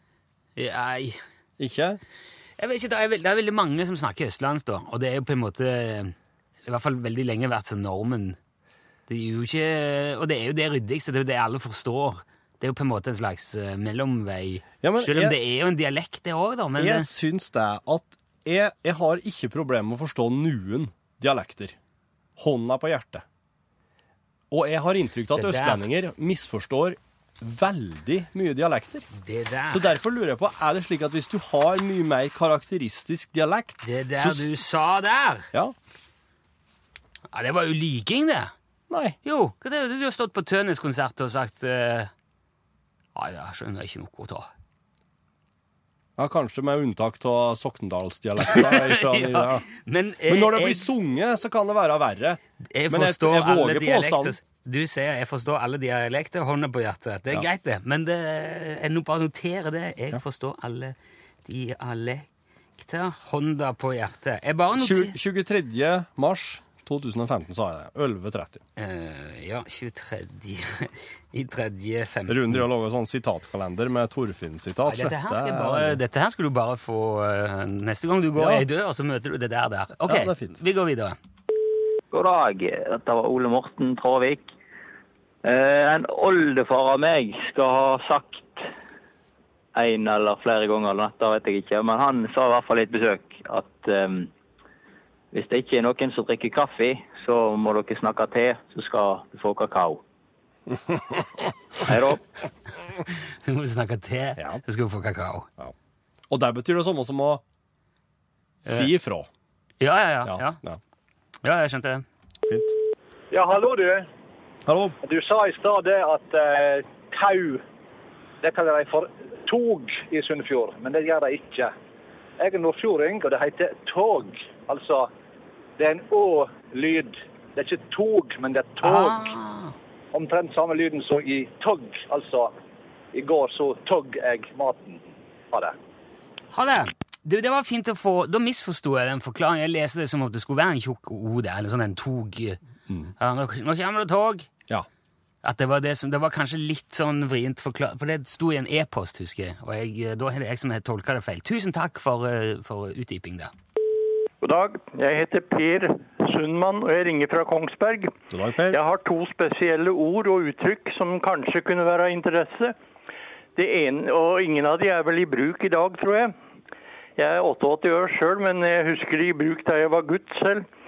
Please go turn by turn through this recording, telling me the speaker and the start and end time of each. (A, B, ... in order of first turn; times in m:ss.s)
0:00.6-0:01.2 A
0:01.6-0:02.0 B
0:02.6-0:06.1 A
0:06.6-0:08.4 A
0:09.1-0:17.1 A
0:14.8-0:15.4 B
0:16.8-0:21.8 B
0:22.4-0:23.2 B
0:24.5-0:29.0 B
0:25.3-0:25.8 A
0:29.1-0:30.0 A
0:29.7-0:34.5 B
0:33.8-0:35.5 A
0:37.3-0:38.5 A
0:38.9-0:39.2 B
0:39.2-0:42.1 A
0:43.1-0:44.5 A
0:46.2-0:49.7 B
0:48.4-0:50.9 A
0:50.3-0:54.4 B
0:52.7-1:02.3 A
1:02.8-1:05.1 A
1:04.8-1:08.6 B
1:08.8-1:12.6 A
1:12.3-1:16.0 B
1:14.8-1:21.2 A
1:18.4-1:18.6 B
1:20.0-1:20.6 B
1:22.1-1:24.5 C
1:25.4-1:28.6 C
1:29.8-1:34.3 C
1:35.3-1:40.0 C
1:40.7-1:41.2 B
1:41.8-1:42.2 C
1:43.4-1:45.5 A
1:44.4-1:44.6 B
1:46.3-1:47.4 B
1:48.6-1:49.3 B
1:49.8-1:50.6 A
1:50.2-1:50.8 B
1:51.4-1:52.0 A
1:52.5-1:52.8 B
1:53.3-1:54.1 D
1:54.6-1:55.0 B
1:55.0-1:57.6 D
1:58.4-2:01.7 D
2:02.4-2:05.1 D
2:05.8-2:09.3 D
2:08.8-2:09.8 A
2:10.1-2:12.5 D
2:13.1-2:15.8 D
2:16.5-2:22.6 A
2:23.2-2:24.5 A
2:25.4-2:33.5 A
2:34.4-2:38.1 E
2:38.3-2:38.8 B
2:38.7-2:42.7 E
2:43.6-2:46.3 E
2:47.2-2:50.6 E